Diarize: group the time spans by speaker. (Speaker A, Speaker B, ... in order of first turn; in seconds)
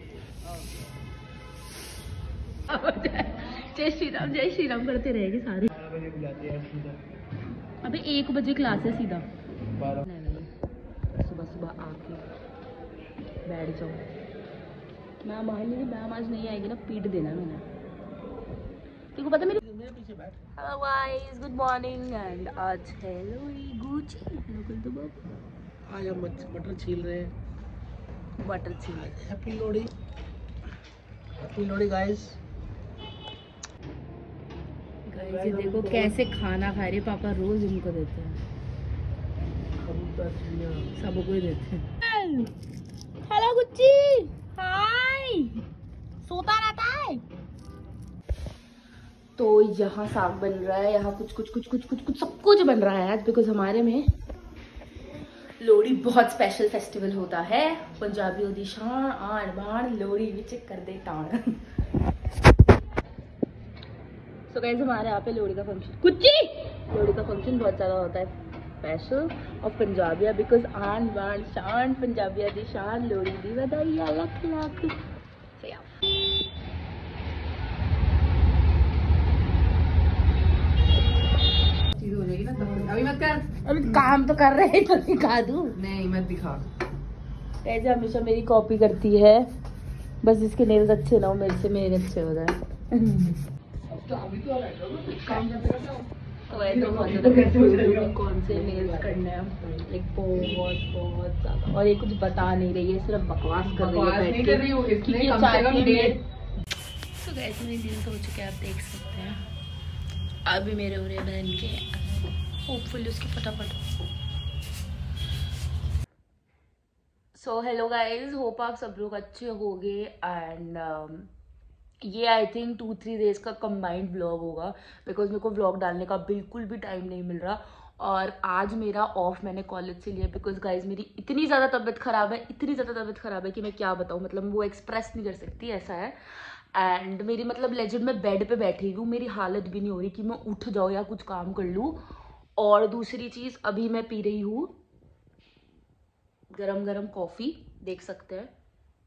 Speaker A: 2.6-5.7, 7.8-9.2, 9.8-10.5, 11.2-12.2, 13.4-14.0, 15.2-17.6, 19.1-19.6, 20.6-25.2, 28.4-29.2, 35.0-38.4, 40.9-42.5, 43.2-45.6, 46.2-47.2, 49.4-54.1, 55.6-61.6, 64.5-75.0, 75.6-76.0, 83.6-85.8, 87.6-89.5, 90.2-93.4, 95.1-95.4, 96.5-106.2, 107.1-109.4, 110.5-113.8, 117.3-121.3, 122.0-142.0, 142.6-144.7, 146.5-148.5
Speaker B: 5.8-7.0, 19.6-20.4, 25.9-27.3, 29.0-29.9, 31.4-32.4, 35.1-36.1, 39.8-40.9
Speaker C: 81.9-83.5, 85.8-86.6, 94.0-96.0, 96.6-98.1, 103.6-106.2